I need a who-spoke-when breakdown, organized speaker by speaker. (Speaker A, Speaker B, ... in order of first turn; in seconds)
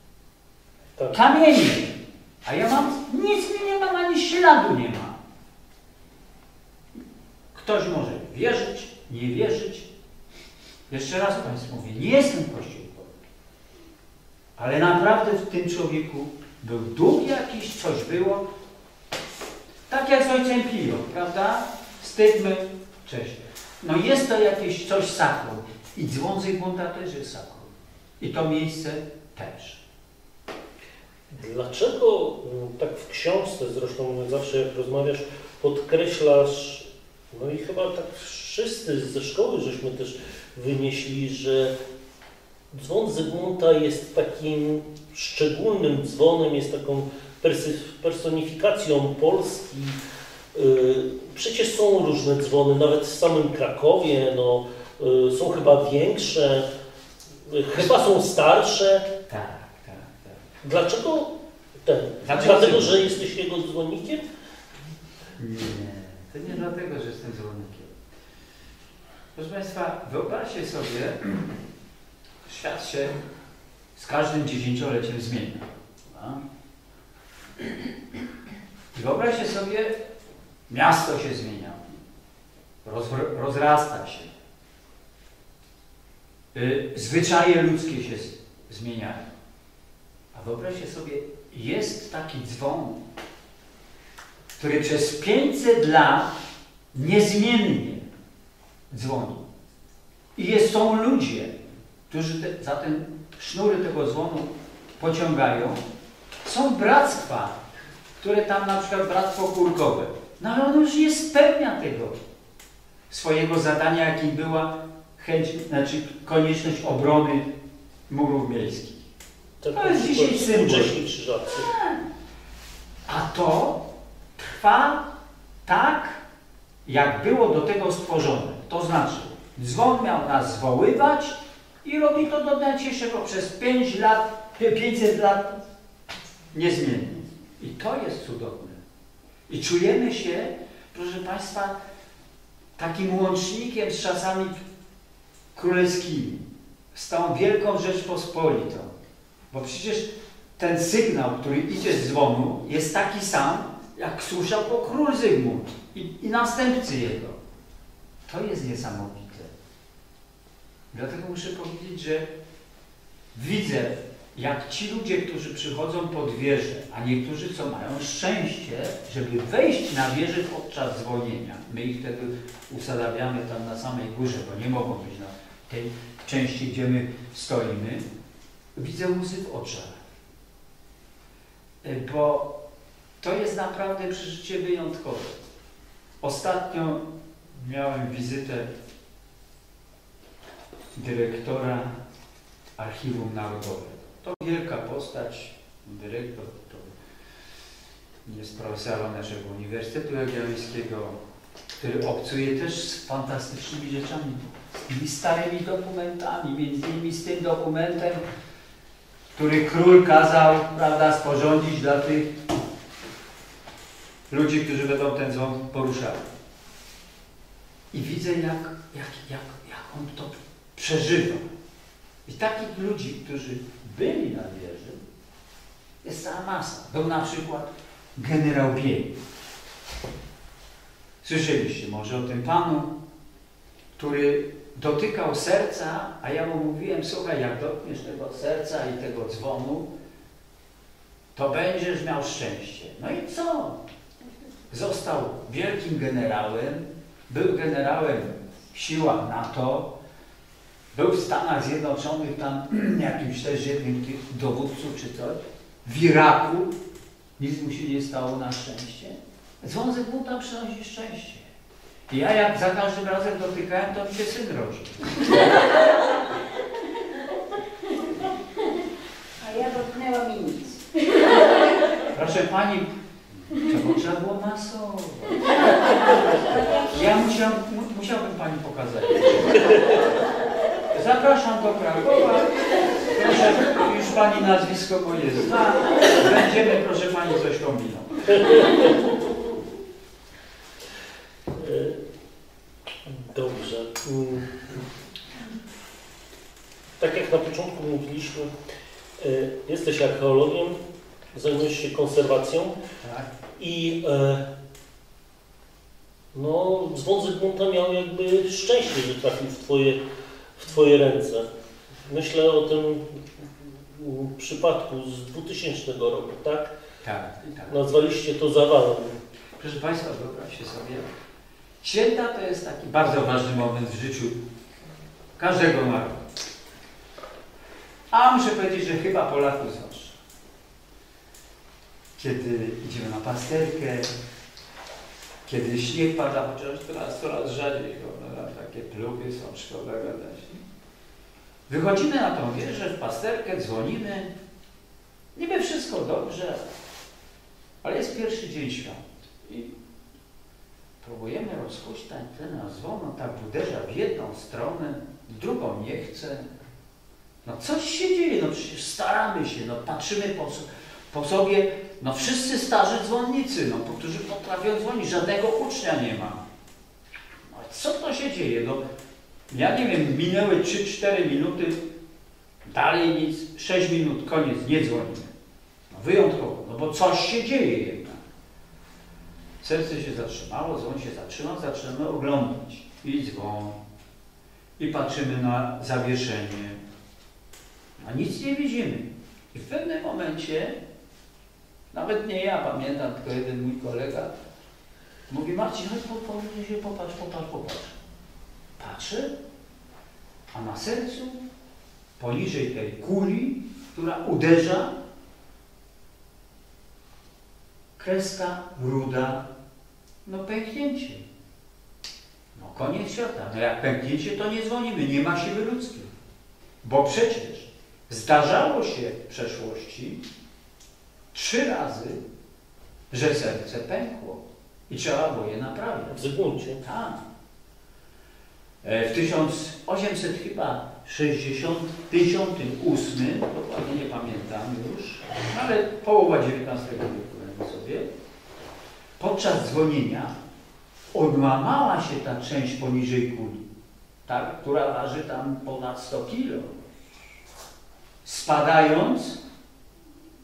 Speaker A: 1.0-1.2, 31.4-41.7, 42.7-50.0, 50.5-56.7, 57.5-59.1, 60.6-61.3, 61.8-64.2, 119.6-121.7, 288.3-289.1, 291.5-292.0, 293.0-294.8, 297.0-298.5, 299.2-300.8, 301.3-302.7, 303.6-304.4, 306.3-310.0, 310.6-311.5, 312.0-316.7, 317.7-319.2, 426.1-426.8
Speaker B: 1.1-5.2, 7.5-9.9, 10.9-13.2, 14.6-18.5, 19.9-29.8, 59.3-60.4, 62.2-63.1, 65.4-67.9, 69.3-71.6, 72.4-73.2, 74.0-76.4, 78.9-80.0, 80.7-81.9, 82.8-84.3, 86.5-89.3, 90.3-93.0, 94.6-96.3, 96.9-98.0, 98.9-99.4, 100.4-101.6, 102.1-105.8, 106.4-107.6, 108.2-112.2, 113.1-117.5, 118.1-119.0, 119.7-122.1, 123.0-123.9, 124.4-125.1, 125.6-126.2, 126.9-135.6, 136.5-138.8, 139.5-141.8, 142.8-144.6, 145.5-148.9, 149.5-157.4, 158.3-159.5, 160.9-162.3, 163.3-178.0, 178.7-180.0, 181.8-182.5, 183.2-185.4, 186.2-188.7, 190.9-191.9, 192.8-196.9, 198.2-201.2, 201.8-208.2, 209.3-212.4, 214.3-216.3, 217.9-221.5, 222.2-225.0, 226.0-229.2, 231.2-232.9, 234.0-239.9, 241.3-243.8, 244.7-249.9, 250.9-256.7, 257.4-261.5, 262.1-265.3, 272.1-272.9, 273.5-275.6, 276.9-279.9, 280.9-288.6, 303.0-303.3, 317.0-317.7, 319.6-321.1, 321.8-324.4, 325.4-326.2, 328.1-330.2, 332.1-334.1, 335.4-340.6, 341.7-344.3, 345.3-346.6, 347.8-349.7, 351.0-356.5, 357.4-366.4, 367.4-368.8, 369.5-371.8, 372.6-375.3, 375.9-378.2, 379.6-383.8, 384.8-386.8, 388.0-390.8, 391.9-394.3, 395.3-398.0, 398.8-399.3, 400.5-401.4, 402.2-404.9, 408.0-409.4, 410.2-411.2, 412.5-416.1, 416.8-420.2, 421.3-422.2, 423.1-426.2, 426.8-427.2, 428.8-438.1, 439.2-440.3, 441.1-443.6, 444.2-446.7, 448.2-449.4
Speaker C: 269.4-271.6